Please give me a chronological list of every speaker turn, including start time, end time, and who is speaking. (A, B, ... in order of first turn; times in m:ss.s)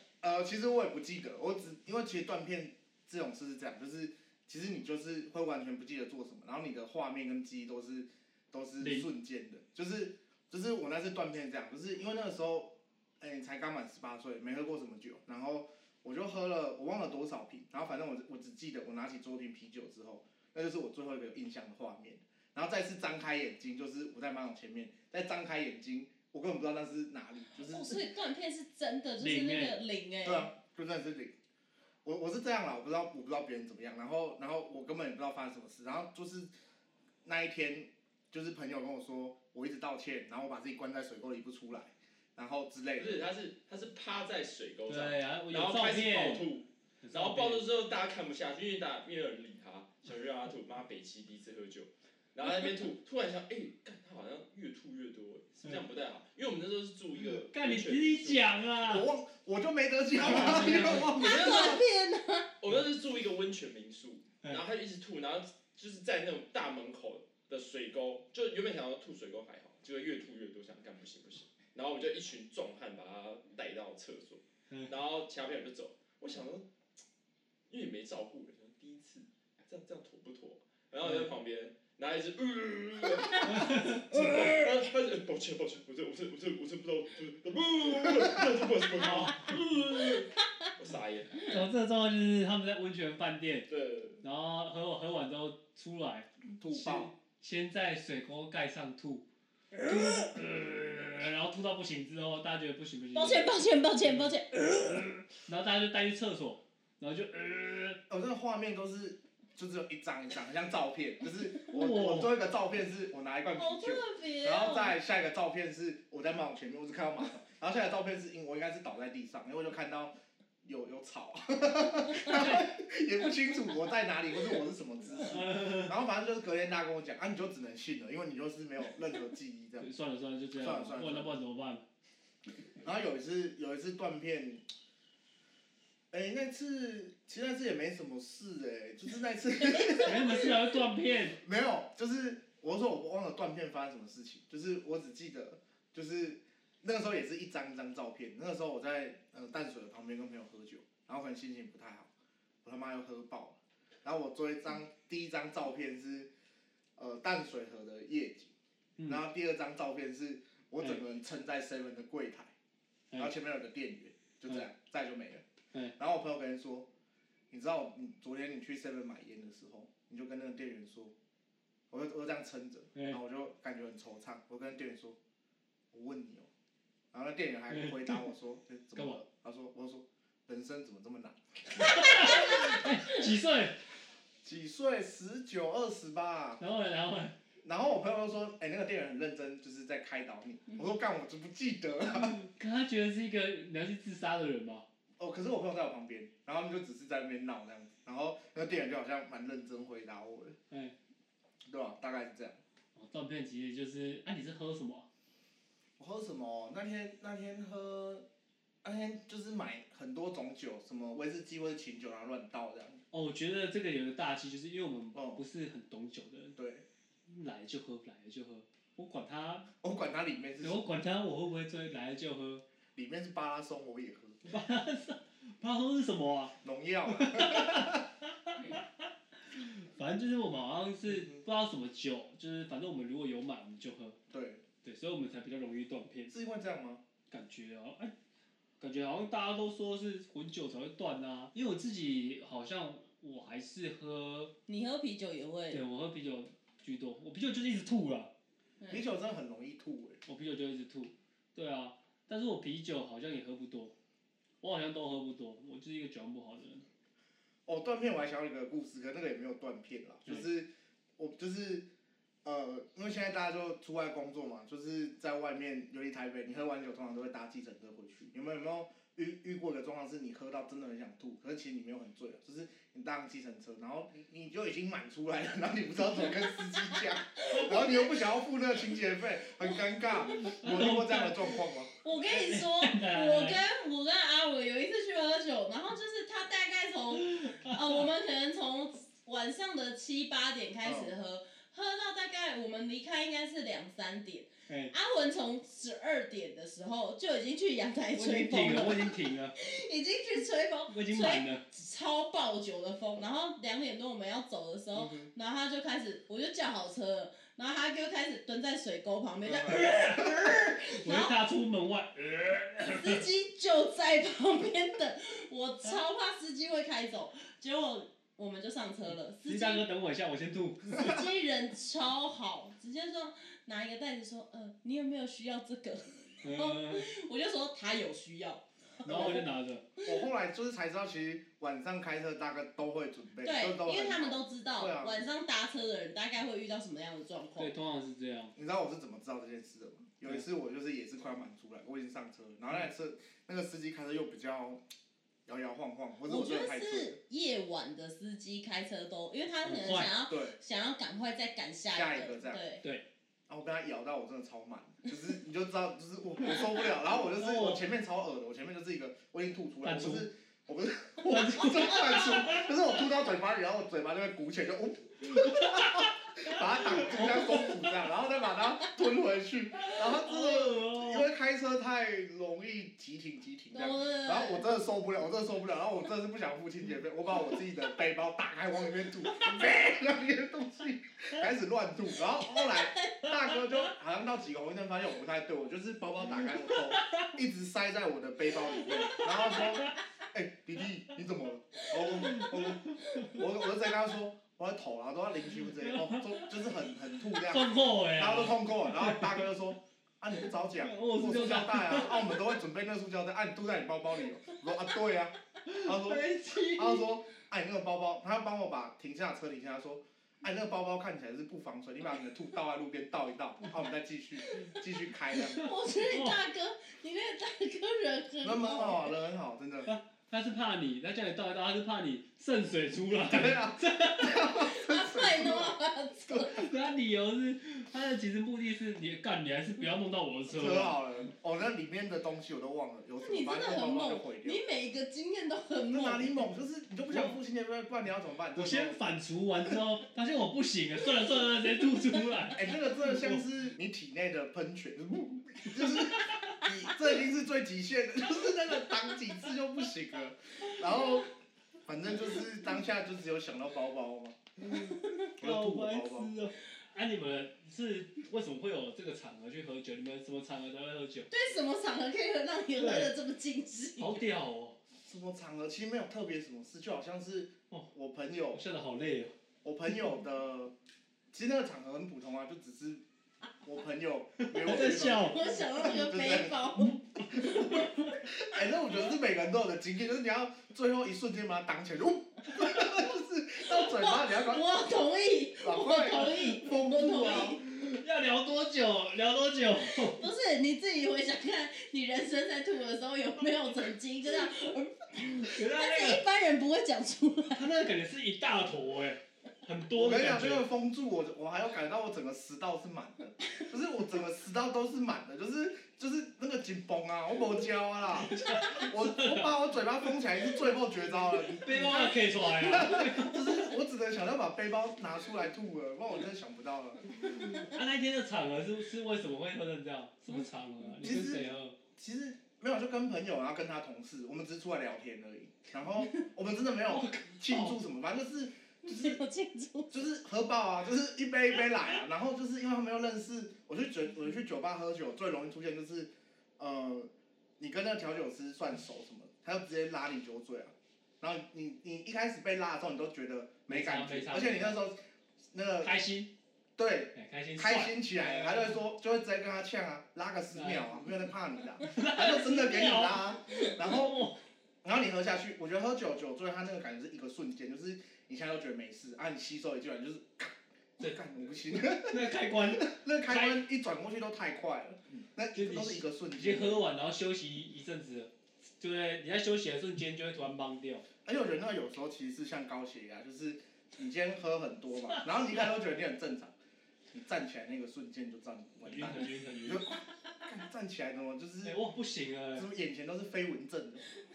0:00.2-0:28.0 A
0:08.8-0:09.1 B
0:27.6-0:30.5 C
0:29.2-0:29.8 B
0:30.2-0:31.3 A
0:32.0-0:36.5 A
0:37.2-0:43.2 A
0:43.0-0:58.6 D
0:44.9-0:46.5 B
0:47.0-0:47.6 B
0:57.5-0:59.1 B
0:58.8-1:01.8 A
1:00.2-1:01.4 B
1:00.2-1:01.7 D
1:00.8-1:02.5 C
1:02.6-1:16.7 D
1:17.7-1:31.5 D
1:23.4-1:24.6 B
1:29.0-1:29.6 B
1:31.4-1:33.7 B
1:33.7-1:34.2 D
1:34.2-1:39.2 B
1:36.6-1:37.1 A
1:39.8-1:40.3 C
1:39.8-1:44.3 B
1:43.1-1:45.2 C
1:45.4-1:48.0 B
1:48.1-2:09.9 A
1:51.7-1:52.3 B
1:53.5-1:55.0 C
2:02.1-2:02.7 B
2:05.2-2:05.9 B
2:09.8-2:11.8 B
2:10.6-2:11.3 A
2:12.8-2:14.6 A
2:16.1-2:20.4 A
2:19.8-2:20.2 C
2:20.0-2:21.4 B
2:21.4-2:32.1 A
2:32.6-2:36.3 A
2:37.0-2:38.5 A
2:39.0-2:39.2 B
2:39.1-2:42.5 A
2:43.2-2:45.4 A
2:46.0-2:46.9 A
2:47.5-2:51.1 A
2:51.9-2:55.2 A
2:52.9-2:53.2 B
2:55.9-2:56.5 A
2:57.1-3:01.9 A
2:57.7-2:58.2 B
2:59.0-2:59.2 B
3:01.8-3:03.8 B
3:01.9-3:02.7 C
3:04.4-3:06.6 A
3:06.6-3:07.3 B
3:07.6-3:12.4 A
3:12.1-3:14.8 B
3:15.2-3:20.6 A
3:20.7-3:20.9 B
3:21.6-3:22.6 A
3:22.9-3:25.1 B
3:26.0-3:28.2 A
3:28.8-3:33.0 A
3:33.1-3:36.6 B
3:35.1-3:35.4 A
3:36.6-3:36.8 A
3:37.3-3:39.7 B
3:39.8-3:40.8 A
3:40.6-3:42.6 B
3:43.0-3:44.4 A
3:44.4-3:46.5 B
3:46.6-3:48.0 A
3:47.1-3:54.2 B
3:51.1-3:51.4 A
3:54.3-3:54.6 A
3:54.8-3:56.3 B
3:56.3-3:57.0 A
3:57.3-3:58.1 B
3:58.8-4:04.5 B
4:04.7-4:05.8 C
4:05.7-4:08.3 B
4:08.9-4:10.2 A
4:10.2-4:13.9 B
4:14.6-4:16.8 B
4:17.6-4:21.9 A
4:22.4-4:41.9 A
4:36.4-4:38.3 C
4:40.3-4:41.5 B
4:42.0-5:11.3 C
4:42.2-4:43.6 B
4:47.1-4:48.0 B
4:50.8-4:51.1 A
4:54.7-4:54.9 B
4:58.1-4:59.5 B
5:00.9-5:01.6 B
5:04.9-5:05.3 A
5:09.4-5:09.9 A
5:09.6-5:13.2 B
5:12.8-5:19.8 C
5:19.4-5:21.1 B
5:20.9-5:29.5 C
5:26.4-5:27.1 B
5:29.0-5:29.8 B
5:29.1-5:29.4 A
5:30.0-5:30.2 C
5:30.0-5:35.2 A
5:33.4-5:37.7 C
5:37.6-5:38.5 B
5:38.6-5:44.8 A
5:45.5-5:47.2 A
5:46.2-5:52.8 C
5:49.6-5:50.1 B
5:50.3-5:50.6 A
5:51.9-5:52.6 A
5:53.5-6:55.7 A
5:57.3-5:57.8 B
5:59.8-6:00.3 B
6:01.2-6:02.7 B
6:01.6-6:02.5 C
6:05.3-6:07.9 B
6:09.8-6:11.2 B
6:13.7-6:14.6 C
6:22.4-6:23.3 C
6:26.4-6:27.4 B
6:28.8-6:30.0 B
6:31.8-6:33.4 C
6:32.2-6:33.4 B
6:35.8-6:36.6 B
6:37.3-6:39.5 B
6:40.8-6:42.5 B
6:45.6-6:47.0 B
6:55.3-6:59.1 C
6:55.6-6:56.4 B
6:58.4-6:59.9 A
6:59.8-7:04.3 B
7:03.2-7:05.8 A
7:04.4-7:06.6 C
7:06.4-7:11.0 B
7:10.5-7:14.6 A
7:13.2-7:16.4 C
7:15.9-7:19.0 A
7:17.1-7:17.4 B
7:18.5-7:23.4 B
7:22.5-7:31.3 A
7:25.7-7:26.6 B
7:31.8-7:34.4 A
7:34.6-7:41.3 B
7:34.8-7:35.3 C
7:35.4-7:36.3 A
7:41.3-7:44.2 C
7:42.8-7:43.1 B
7:44.0-7:44.8 B
7:45.0-7:48.6 A
7:48.5-7:49.3 B
7:49.6-7:50.7 A
7:51.3-7:53.0 A
7:53.6-7:56.7 A
7:54.4-7:55.4 B
7:55.0-7:57.9 C
7:56.8-7:58.2 B
7:57.7-8:04.6 A
8:03.6-8:07.6 C
8:05.6-8:07.6 A
8:07.2-8:10.2 B
8:09.8-8:17.7 C
8:15.2-8:16.2 B
8:17.5-8:20.7 B
8:20.0-8:32.0 A
8:28.2-8:30.1 B
8:31.6-8:33.8 B
8:31.7-8:32.1 C
8:32.6-8:37.0 A
8:37.3-8:41.8 B
8:41.0-8:49.2 A
8:46.9-8:47.8 B
8:48.8-8:50.0 C
8:49.9-9:05.0 A
9:03.7-9:04.8 B
9:05.5-9:06.0 A
9:05.8-9:06.3 B
9:06.8-9:14.2 A
9:07.1-9:08.8 B
9:10.5-9:11.2 B
9:11.8-9:14.4 B
9:14.8-9:26.8 A
9:21.7-9:23.6 B
9:25.5-9:31.0 B
9:31.2-9:36.5 A
9:37.1-9:41.8 A
9:38.8-9:39.9 B
9:41.6-9:42.7 B
9:42.5-9:44.0 A